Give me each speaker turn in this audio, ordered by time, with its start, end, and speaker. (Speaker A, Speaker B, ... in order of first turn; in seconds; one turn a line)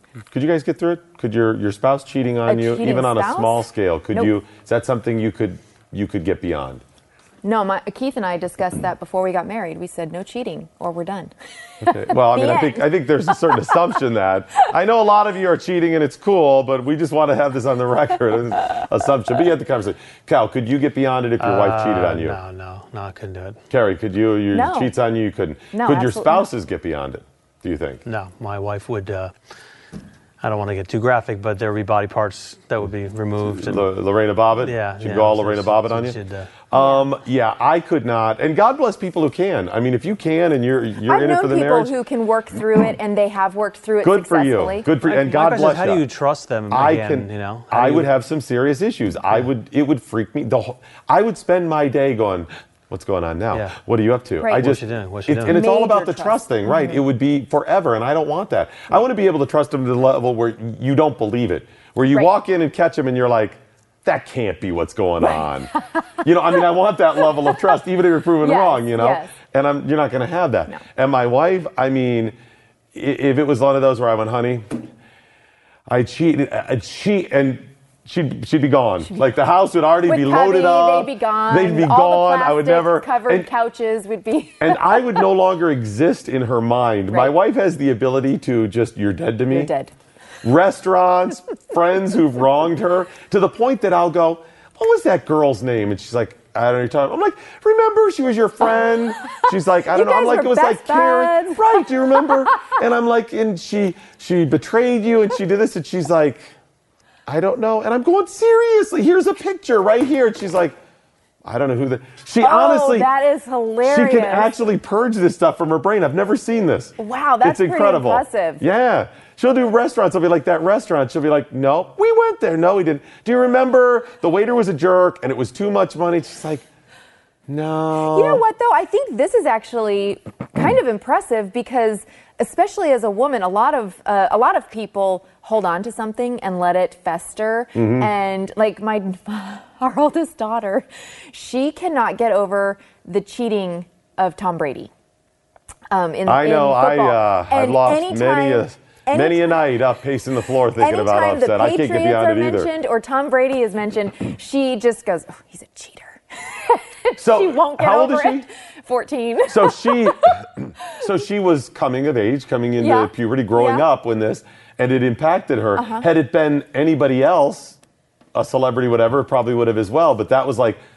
Speaker A: 0.3-6.8
Speaker B: 2.5-4.3
Speaker B: 7.4-14.0
Speaker A: 11.8-22.4
Speaker C: 21.4-23.6
Speaker A: 23.7-28.0
Speaker B: 24.5-24.9
Speaker B: 25.7-26.5
Speaker C: 28.1-29.3
Speaker C: 30.4-33.9
Speaker A: 33.4-36.2
Speaker C: 34.5-36.5
Speaker A: 36.7-42.0
Speaker B: 36.8-37.1
Speaker B: 41.0-44.9
Speaker A: 44.0-46.0
Speaker C: 45.0-48.1
Speaker A: 46.7-72.3
Speaker B: 54.4-54.7
Speaker C: 54.5-55.6
Speaker B: 55.5-57.0
Speaker B: 65.2-66.1
Speaker B: 68.4-69.3
Speaker A: 72.9-74.9
Speaker A: 75.9-83.5
Speaker B: 80.1-85.2
Speaker A: 84.6-89.7
Speaker B: 87.1-87.3
Speaker B: 89.5-89.9
Speaker A: 90.4-106.5
Speaker B: 99.9-102.7
Speaker A: 107.3-110.8
Speaker A: 111.4-113.1
Speaker B: 112.4-114.6
Speaker A: 113.8-126.7
Speaker B: 117.0-118.6
Speaker A: 127.5-128.4
Speaker B: 128.1-144.9
Speaker A: 137.8-138.1
Speaker B: 145.9-149.6
Speaker A: 146.3-152.7
Speaker B: 150.8-160.3
Speaker A: 157.2-158.5
Speaker A: 159.5-167.8
Speaker B: 162.8-163.8
Speaker B: 165.8-166.1
Speaker A: 168.3-170.8